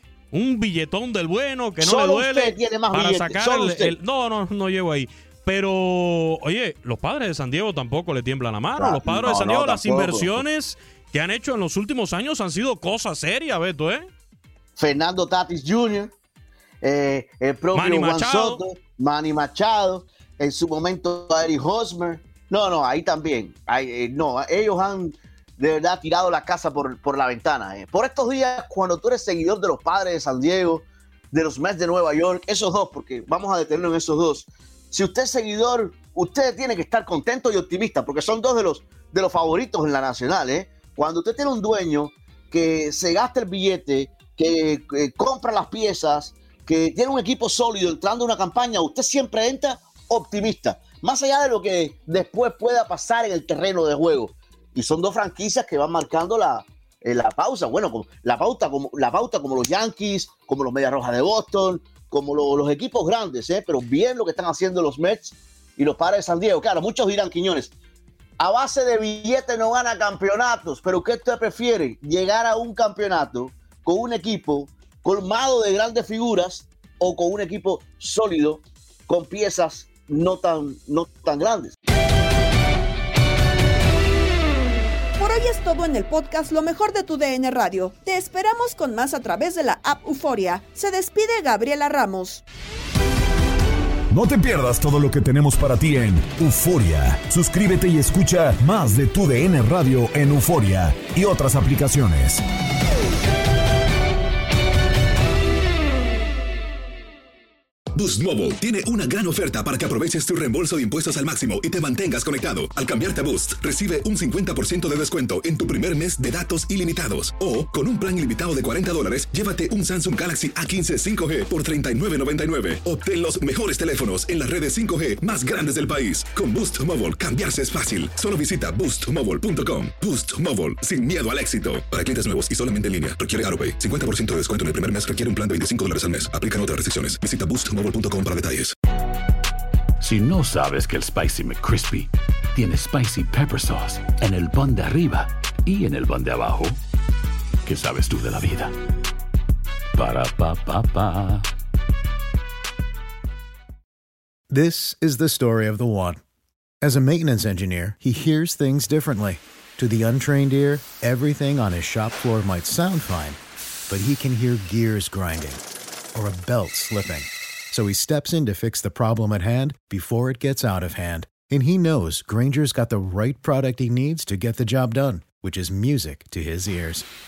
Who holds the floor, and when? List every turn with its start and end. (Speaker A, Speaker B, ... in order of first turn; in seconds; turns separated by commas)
Speaker A: 0.3-14.1, Speaker B: 1.8-4.0, Speaker B: 8.8-10.4, Speaker B: 14.8-16.1, Speaker B: 16.8-67.7, Speaker A: 17.7-18.6, Speaker B: 68.4-81.8, Speaker C: 85.2-92.4, Speaker D: 94.1-102.4, Speaker E: 108.0-138.7, Speaker F: 140.0-146.8, Speaker F: 147.7-148.7, Speaker F: 150.0-151.5, Speaker G: 154.5-156.2, Speaker G: 156.8-165.6, Speaker G: 166.2-177.1